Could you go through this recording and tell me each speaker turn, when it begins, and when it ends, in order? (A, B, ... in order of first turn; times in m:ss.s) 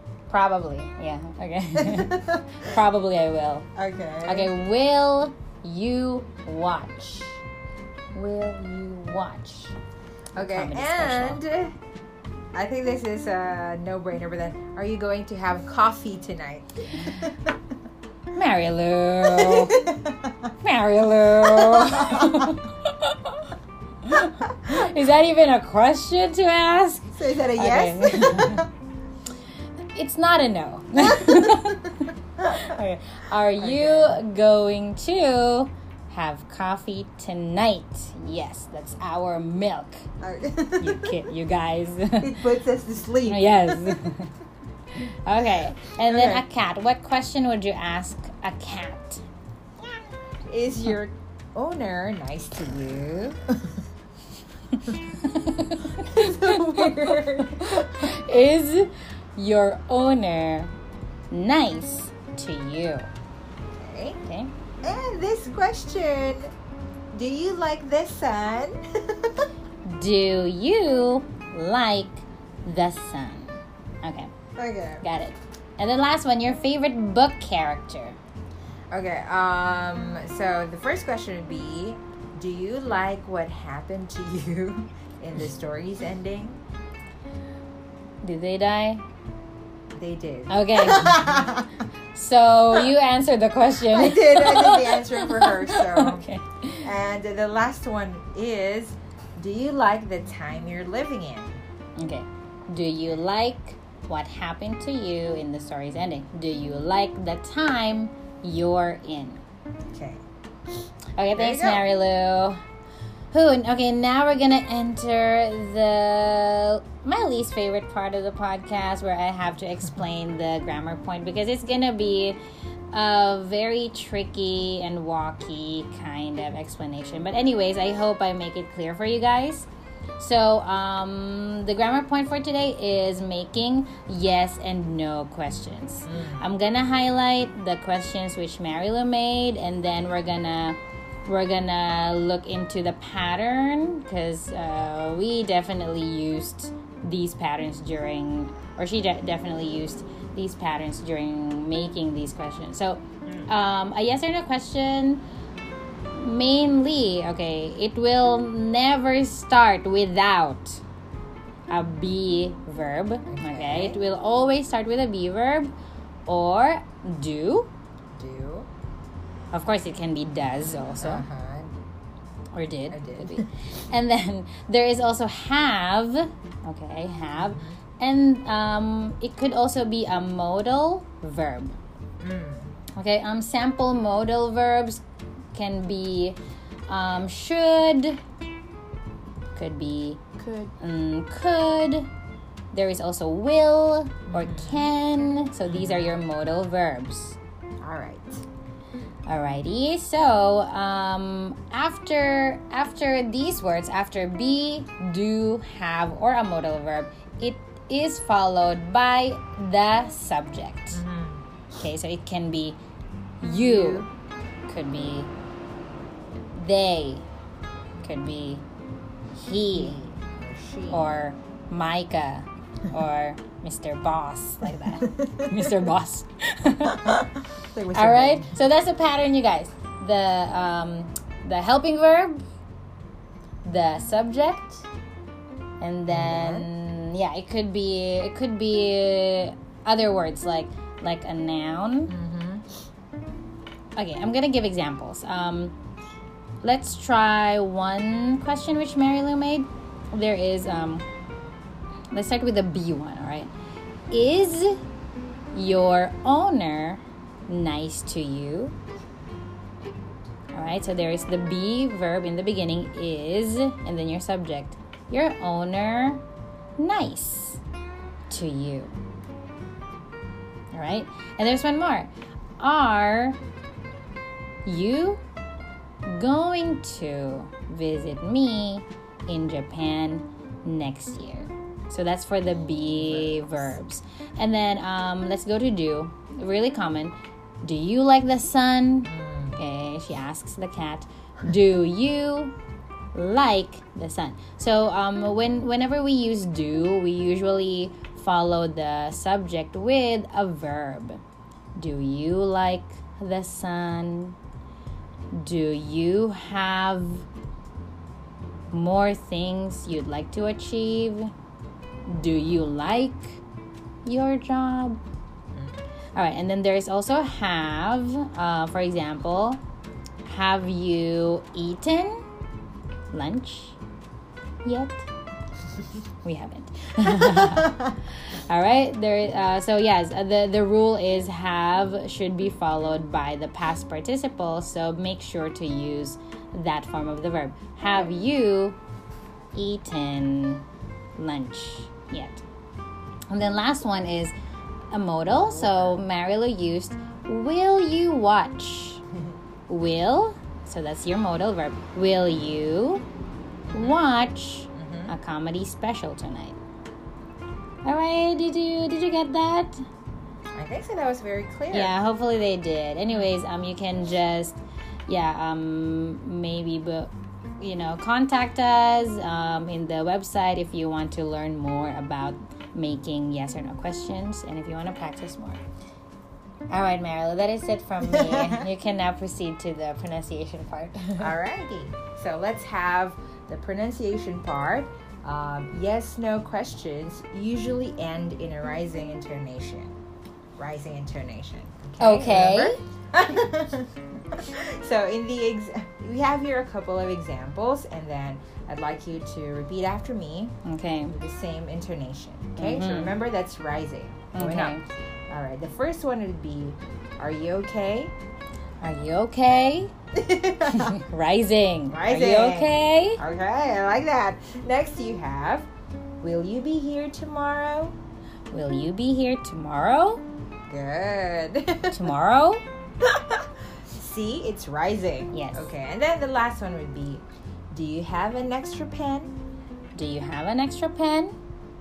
0:00.3-0:03.7 A
0:01.8-0:02.7 B
0:03.8-0:04.5 B
0:04.2-0:07.4 A
0:08.1-0:09.7 A
0:10.4-0:11.7 B
0:10.4-0:11.4 A
0:12.5-0:17.6 B
0:18.3-0:20.0 A
0:19.2-0:20.5 B
0:20.6-0:28.7 A
0:21.4-0:22.6 B
0:27.1-0:28.7 B
0:30.0-0:40.1 A
0:31.0-0:32.6 B
0:33.6-0:34.2 B
0:40.2-0:41.3 B
0:40.8-0:42.4 A
0:42.2-0:44.1 B
0:43.2-0:44.3 A
0:45.0-0:49.2 A
0:46.0-0:46.4 B
0:50.5-0:53.8 B
0:54.9-1:00.7 A
0:55.9-0:58.1 B
1:01.3-1:03.1 A
1:03.8-1:04.2 B
1:04.2-1:04.5 A
1:04.8-1:06.5 B
1:07.1-1:09.5 B
1:09.8-1:14.3 A
1:14.6-1:15.0 B
1:15.0-1:18.2 A
1:18.9-1:26.6 B
1:28.2-1:29.0 A
1:30.0-1:31.7 B
1:30.5-1:31.6 A
1:32.1-1:36.9 A
1:33.9-1:36.2 B
1:36.8-1:41.6 B
1:42.0-1:49.4 A
1:49.9-1:50.2 B
1:51.2-1:52.6 A
1:51.3-1:51.9 B
1:53.3-2:02.4 A
2:02.9-2:35.2 A
2:16.1-2:16.4 B
2:36.1-2:40.8 A
2:41.7-2:45.7 A
2:43.3-2:44.0 B
2:46.3-2:47.7 A
2:48.2-2:48.7 B
2:49.5-2:51.2 A
2:51.0-2:51.7 B
2:52.5-3:01.8 A
2:52.9-2:53.5 B
2:57.4-2:57.8 B
3:02.2-3:02.7 B
3:03.0-3:05.0 A
3:05.5-3:08.2 A
3:09.5-3:10.2 A
3:10.4-3:10.7 B
3:10.8-3:12.1 A
3:12.7-3:17.4 A
3:14.3-3:14.9 B
3:15.7-3:16.2 B
3:17.8-3:18.4 B
3:19.3-3:31.0 A
3:30.9-3:31.4 B
3:31.8-3:32.8 A
3:33.4-3:34.1 A
3:33.6-3:34.1 B
3:34.7-3:35.3 A
3:36.6-3:37.3 A
3:38.0-3:38.6 A
3:39.4-3:40.1 A
3:39.7-3:41.1 B
3:40.9-3:47.3 A
3:45.0-3:45.6 B
3:47.0-3:48.6 B
3:47.9-3:52.4 A
3:53.6-3:54.9 A
3:55.8-4:02.2 A
3:56.1-3:56.7 B
4:02.1-4:02.6 B
4:04.0-4:05.8 A
4:06.6-4:11.1 A
4:12.1-4:13.5 A
4:14.1-4:14.8 A
4:15.5-4:18.8 A
4:20.5-4:26.2 A
4:26.8-4:27.6 A
4:28.3-4:29.0 A
4:30.7-4:33.4 A
4:34.6-4:35.2 A
4:36.0-4:52.6 A
4:42.8-4:43.7 B
4:49.0-4:49.6 B
4:53.1-5:01.2 A
5:01.8-5:04.4 A
5:05.3-5:07.3 A
5:08.7-5:11.3 A
5:12.1-5:13.4 A
5:14.0-5:15.0 A
5:16.2-5:19.6 A
5:20.2-5:22.2 A
5:23.1-5:23.8 A
5:24.6-5:25.1 A
5:26.2-5:38.8 A
5:27.1-5:27.9 B
5:39.5-5:40.6 A
5:41.2-5:42.4 A
5:43.3-5:44.4 A
5:44.9-5:49.0 A
5:45.3-5:46.0 B
5:49.7-5:53.0 A
5:53.7-5:54.0 B
5:53.7-5:56.6 A
5:54.7-5:55.1 B
5:57.8-5:59.8 A
6:00.5-6:02.0 B
6:01.7-6:15.6 A
6:16.7-6:21.3 A
6:18.0-6:18.7 B
6:21.2-6:30.0 B
6:30.6-6:40.6 B
6:32.0-6:32.8 A
6:40.6-6:41.2 A
6:41.1-6:44.8 B
6:42.6-6:43.2 A
6:44.3-6:44.8 A
6:45.3-6:48.1 B
6:48.8-6:49.9 A
6:50.1-6:51.0 B
6:50.6-6:53.2 A
6:51.9-6:55.7 B
6:56.2-6:58.0 B
6:58.5-7:00.2 A
7:00.7-7:02.1 B
7:01.9-7:02.6 A
7:03.0-7:09.4 B
7:05.3-7:05.7 A
7:10.0-7:11.4 A